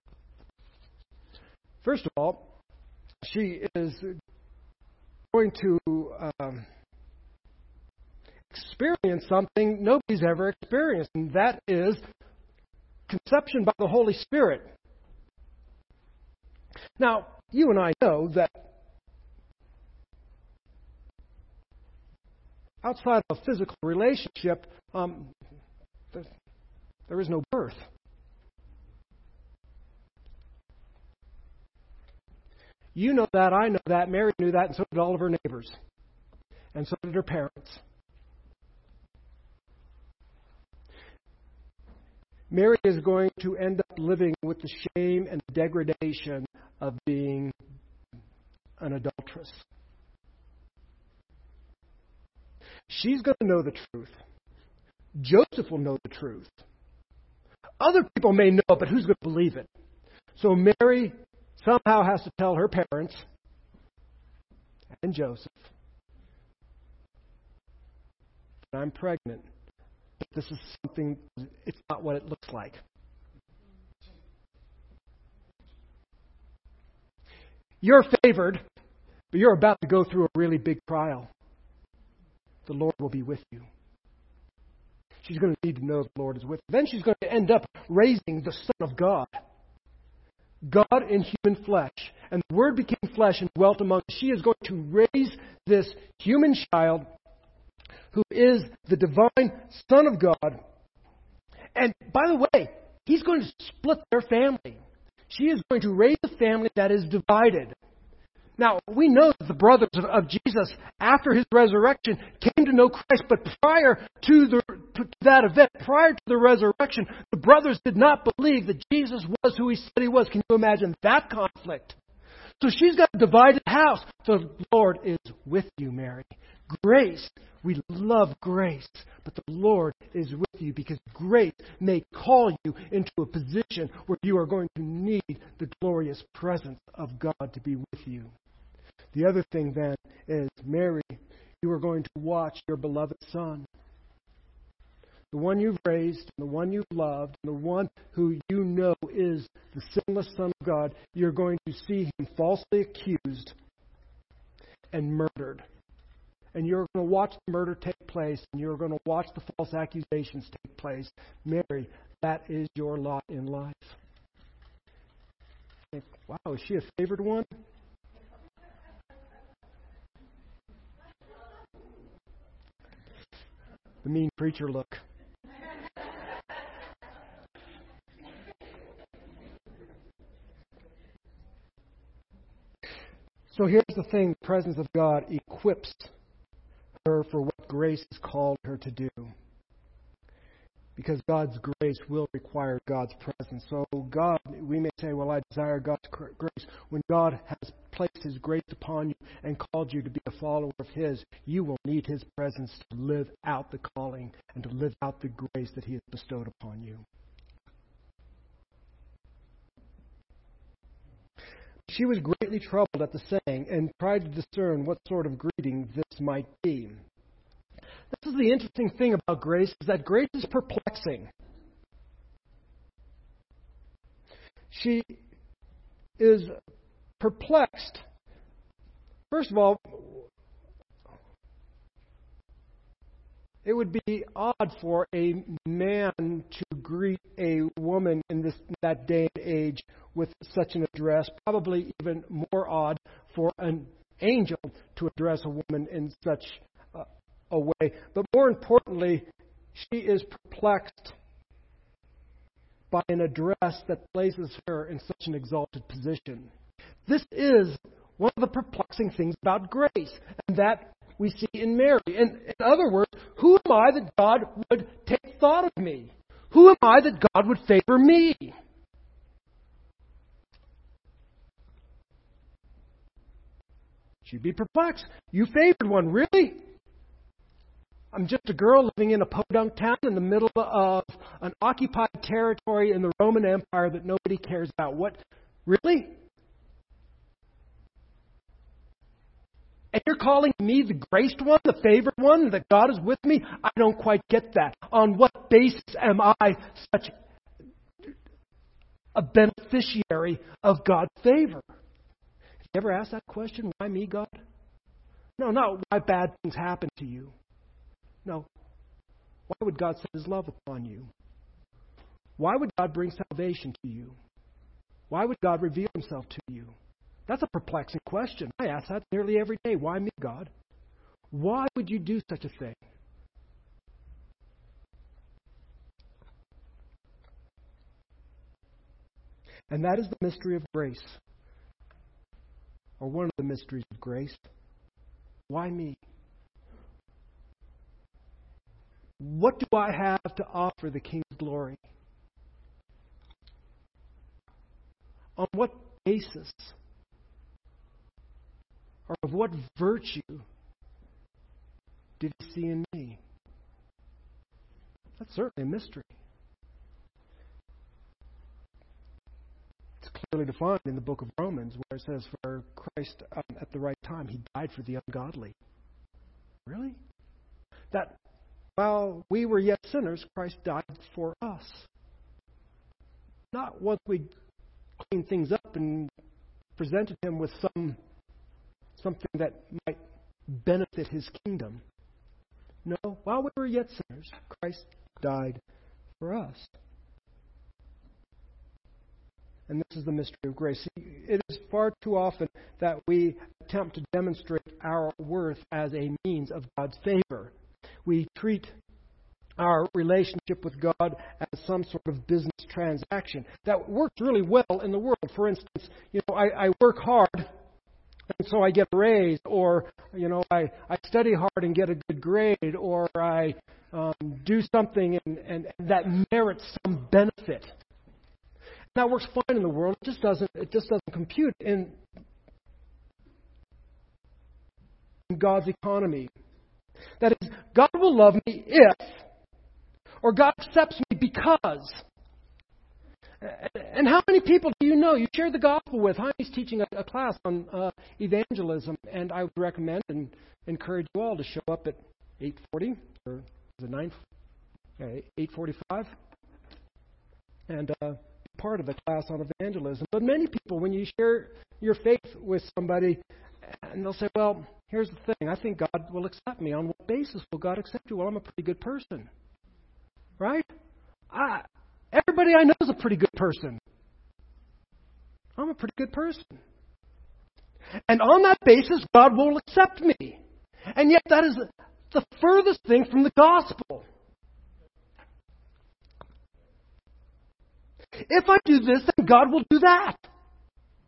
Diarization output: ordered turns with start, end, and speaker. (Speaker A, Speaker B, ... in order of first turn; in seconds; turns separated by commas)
Speaker A: 1.8-2.5, Speaker A: 3.2-4.1, Speaker A: 5.3-6.7, Speaker A: 8.5-12.0, Speaker A: 13.1-14.7, Speaker A: 17.0-18.7, Speaker A: 22.8-25.3, Speaker A: 27.1-27.9, Speaker A: 32.9-35.8, Speaker A: 36.7-37.8, Speaker A: 42.5-47.5, Speaker A: 48.8-49.6, Speaker A: 52.9-54.2, Speaker A: 55.1-56.6, Speaker A: 57.8-59.7, Speaker A: 60.4-63.2, Speaker A: 65.0-65.7, Speaker A: 68.7-69.5, Speaker A: 70.2-72.8, Speaker A: 77.8-78.6, Speaker A: 79.3-81.3, Speaker A: 82.7-83.7, Speaker A: 85.2-89.4, Speaker A: 90.6-97.1, Speaker A: 98.1-100.6, Speaker A: 101.7-107.7, Speaker A: 108.6-122.0, Speaker A: 122.6-138.3, Speaker A: 139.1-143.7, Speaker A: 145.3-153.5, Speaker A: 154.9-155.7, Speaker A: 156.5-163.9, Speaker A: 165.9-167.5, Speaker A: 174.0-175.0, Speaker A: 183.5-186.1, Speaker A: 187.0-189.3, Speaker A: 190.9-207.0, Speaker A: 211.9-217.0, Speaker A: 218.1-221.3, Speaker A: 224.7-225.2, Speaker A: 226.2-226.5, Speaker A: 227.2-228.0, Speaker A: 229.3-230.3, Speaker A: 233.6-251.1, Speaker A: 252.9-256.5, Speaker A: 257.1-268.6, Speaker A: 274.2-276.6, Speaker A: 278.1-286.1, Speaker A: 289.9-297.1, Speaker A: 299.1-301.6, Speaker A: 302.7-304.4, Speaker A: 305.4-307.3, Speaker A: 309.5-311.1, Speaker A: 312.4-314.1, Speaker A: 315.1-316.7, Speaker A: 317.3-320.5, Speaker A: 321.3-322.8, Speaker A: 329.7-331.2, Speaker A: 333.0-334.5, Speaker A: 335.5-336.0, Speaker A: 339.2-341.8, Speaker A: 345.4-346.7, Speaker A: 349.1-350.4, Speaker A: 352.2-353.2, Speaker A: 355.2-356.1, Speaker A: 360.0-365.5, Speaker A: 366.6-367.0, Speaker A: 367.9-368.1, Speaker A: 368.8-371.9, Speaker A: 373.5-374.3, Speaker A: 375.0-376.1, Speaker A: 376.8-378.0, Speaker A: 379.0-381.8, Speaker A: 382.8-385.6, Speaker A: 386.2-386.7, Speaker A: 389.7-397.5, Speaker A: 398.0-398.7, Speaker A: 399.6-407.5, Speaker A: 408.3-417.7, Speaker A: 418.9-422.0, Speaker A: 425.3-426.3, Speaker A: 427.2-429.2, Speaker A: 430.2-432.0, Speaker A: 433.4-444.2, Speaker A: 445.0-446.1, Speaker A: 447.7-453.2, Speaker A: 453.8-459.3, Speaker A: 460.4-460.7, Speaker A: 461.3-463.8, Speaker A: 465.6-466.6, Speaker A: 468.1-470.4, Speaker A: 470.9-474.0, Speaker A: 478.2-480.2